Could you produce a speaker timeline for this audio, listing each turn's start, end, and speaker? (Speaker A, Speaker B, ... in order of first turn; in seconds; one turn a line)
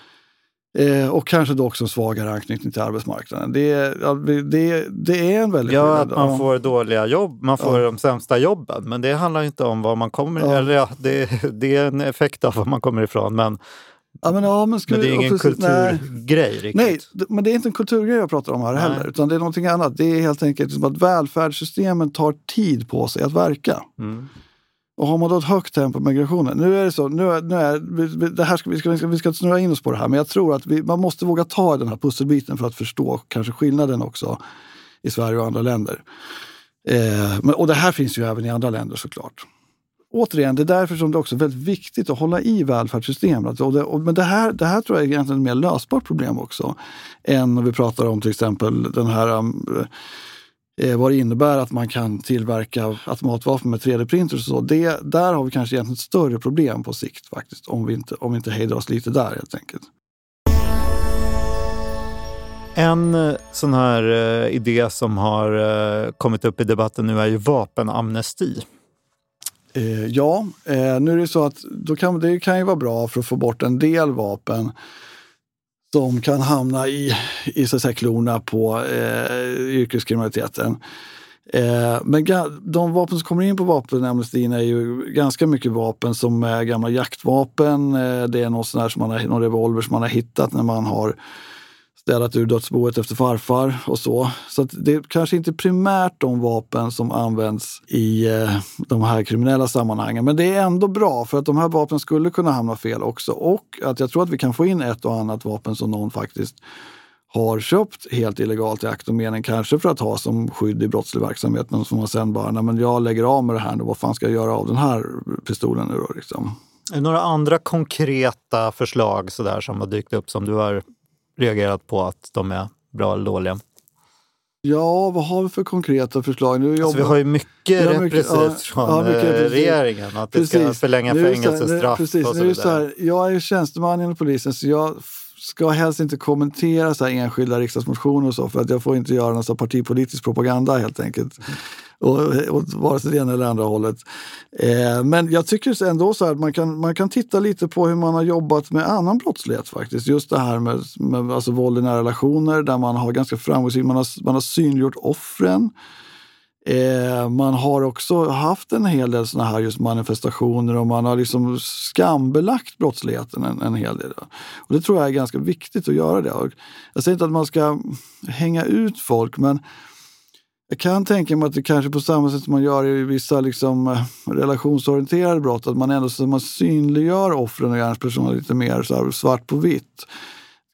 Speaker A: 0.7-6.5
Speaker B: 5.7-13.6
Speaker A: 10.4-10.7
Speaker A: 14.2-16.1
Speaker B: 14.9-17.0
Speaker A: 16.7-23.9
Speaker B: 18.8-19.1
Speaker B: 24.0-24.3
Speaker A: 25.0-34.4
Speaker A: 35.0-36.0
Speaker A: 36.9-39.5
Speaker A: 40.1-49.9
Speaker A: 50.8-59.9
Speaker B: 62.8-68.7
Speaker A: 69.7-74.7
Speaker A: 75.9-80.8
Speaker A: 81.5-91.2
Speaker A: 92.0-106.6
Speaker A: 107.3-116.6
Speaker B: 116.9-120.8
Speaker B: 121.4-123.6
Speaker A: 124.6-127.2
Speaker B: 126.8-132.8
Speaker A: 127.8-129.8
Speaker A: 130.3-155.7
Speaker A: 156.7-169.6
Speaker A: 170.7-180.1